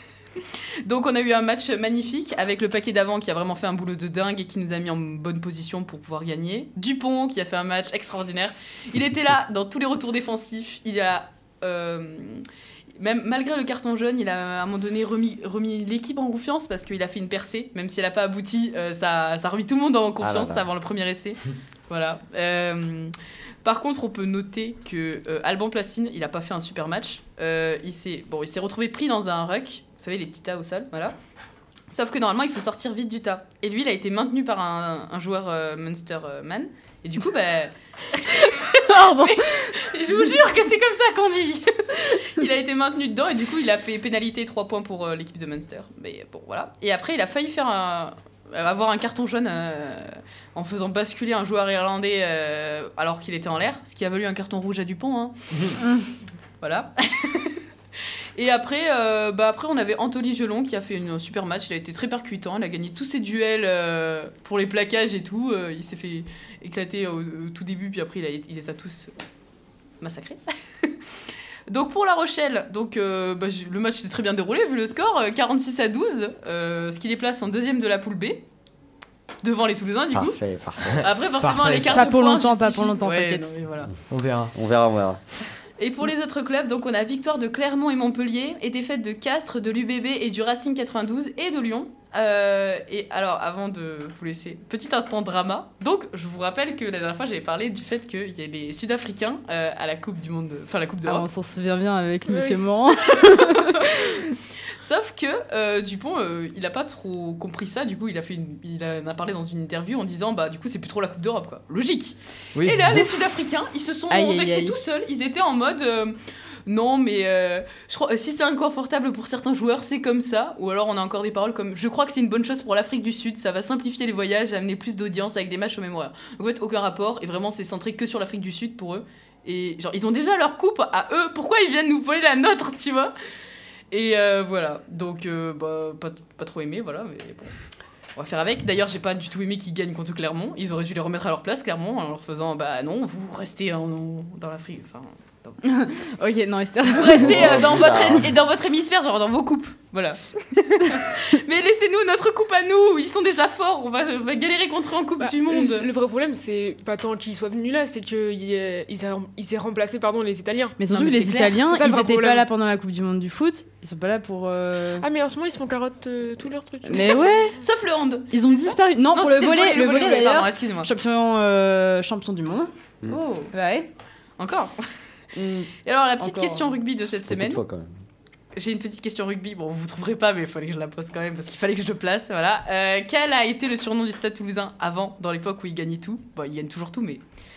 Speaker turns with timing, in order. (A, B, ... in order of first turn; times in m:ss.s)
0:00.4-0:12.4 A
0:13.0-0:23.1 A
0:20.2-0:20.6 B
0:23.6-0:31.2 A
0:31.9-0:55.4 A
0:38.8-0:39.7 C
0:56.6-0:57.6 A
0:58.4-1:09.1 A
1:10.0-1:11.0 A
1:11.7-1:18.4 A
1:19.4-1:20.4 A
1:20.1-1:21.1 B
1:20.9-1:22.1 D
1:21.0-1:23.9 A
1:21.9-1:23.5 C
1:24.1-1:24.5 D
1:24.6-1:25.2 B
1:25.8-1:41.3 A
1:41.0-1:44.2 C
1:42.3-1:42.6 E
1:43.3-1:44.0 A
1:44.8-2:13.1 A
1:52.6-1:53.1 D
1:54.1-1:54.8 C
2:13.9-2:17.5 A
2:18.2-2:25.6 A
2:25.6-2:28.0 C
2:26.9-2:35.9 A
2:27.2-2:28.3 B
2:35.2-2:40.8 E
2:40.8-2:45.1 C
2:40.8-2:41.7 A
2:41.6-2:42.5 E
2:45.0-2:47.4 E
2:46.9-2:47.6 C
2:47.6-2:50.9 A
2:48.3-2:52.7 C
2:53.1-2:53.5 A
2:53.5-2:53.9 C
2:54.4-2:54.8 A
2:55.4-2:56.7 C
2:55.8-2:57.6 A
2:57.3-2:58.0 B
2:58.6-3:07.2 A